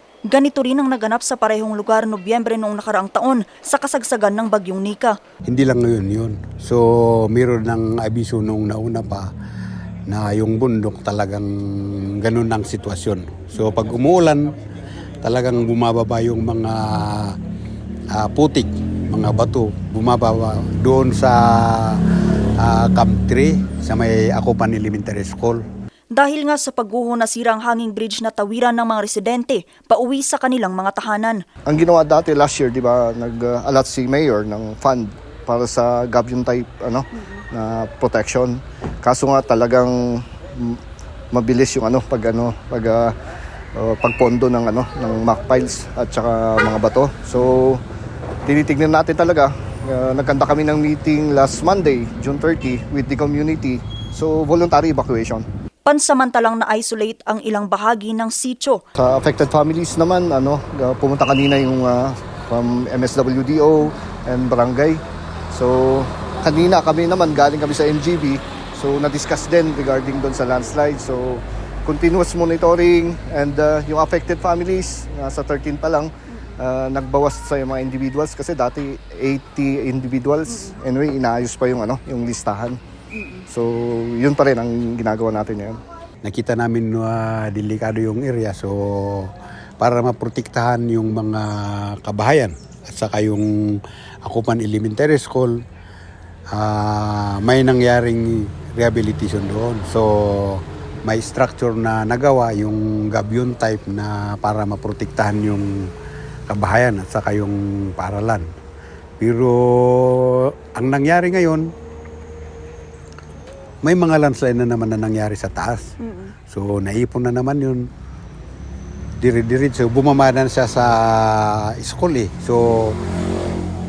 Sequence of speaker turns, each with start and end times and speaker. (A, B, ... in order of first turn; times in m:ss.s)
0:00.3-0:05.2 A
0:05.4-0:09.3 B
0:10.1-0:14.5 B
0:15.2-0:17.4 B
0:18.1-0:22.0 B
0:22.6-0:25.6 B
0:26.1-0:31.4 A
0:31.7-0:40.8 C
0:41.3-0:43.2 C
0:43.8-0:47.8 C
0:48.5-0:55.4 C
0:55.9-0:58.8 A
0:59.0-1:22.8 C
1:23.5-1:25.8 C
1:26.2-1:33.5 B
1:34.2-1:35.6 B
1:36.5-1:45.7 B
1:46.5-1:48.4 B
1:49.2-1:51.6 B
1:53.8-1:55.9 B
1:56.5-1:57.8 B
1:59.2-2:03.0 B